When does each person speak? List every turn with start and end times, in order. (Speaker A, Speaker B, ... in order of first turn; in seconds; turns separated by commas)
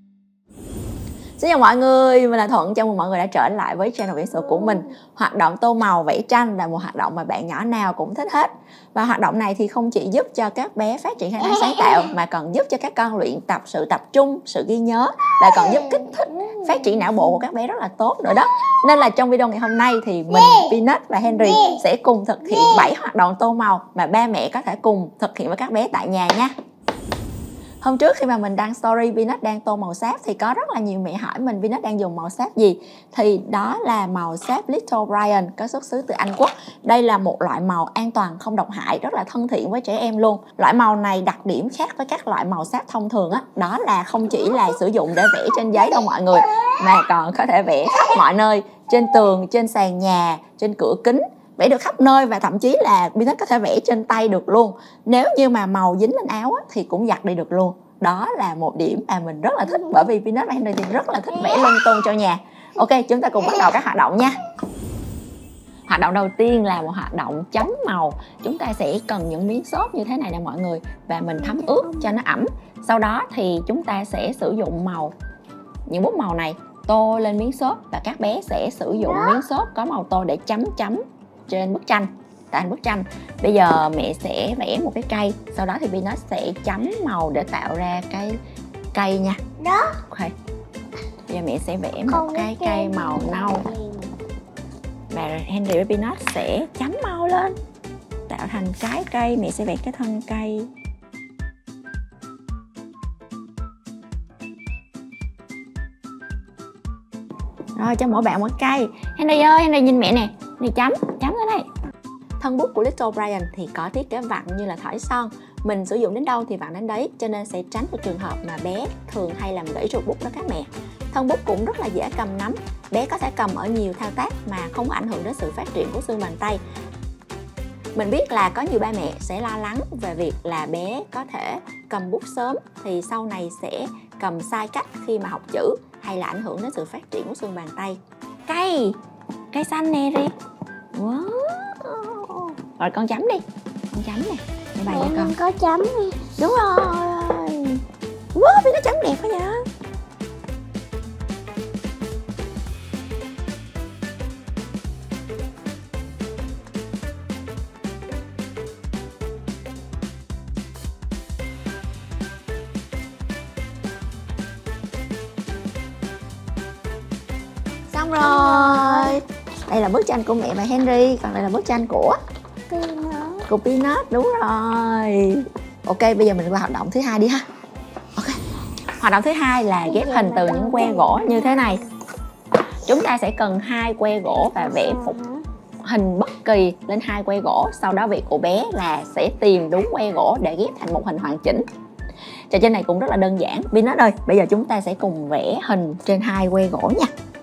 Speaker A: 1.4-26.5, Speaker B: 11.5-12.1, Speaker B: 15.6-17.1, Speaker B: 20.3-20.8, Speaker B: 21.5-21.8, Speaker B: 22.5-22.9, Speaker A: 27.8-64.3, Speaker A: 65.9-75.1, Speaker B: 71.4-72.2, Speaker A: 75.9-88.4, Speaker B: 78.9-79.4, Speaker A: 88.9-89.4, Speaker B: 89.6-90.0, Speaker A: 90.1-90.3, Speaker A: 91.3-93.7, Speaker B: 92.1-94.2, Speaker A: 95.1-97.5, Speaker A: 98.3-100.7, Speaker A: 107.8-111.7, Speaker A: 112.4-126.6, Speaker A: 128.0-139.0, Speaker A: 139.5-140.3, Speaker A: 140.9-145.3, Speaker B: 144.9-146.2, Speaker A: 146.4-147.8, Speaker A: 148.3-149.6, Speaker A: 167.9-172.2, Speaker B: 168.2-169.2, Speaker B: 172.7-173.5, Speaker A: 173.5-177.4, Speaker A: 178.2-178.4, Speaker A: 179.0-181.8, Speaker B: 179.8-181.9, Speaker A: 182.9-185.2, Speaker B: 184.6-185.4, Speaker A: 185.8-191.6, Speaker A: 192.5-197.1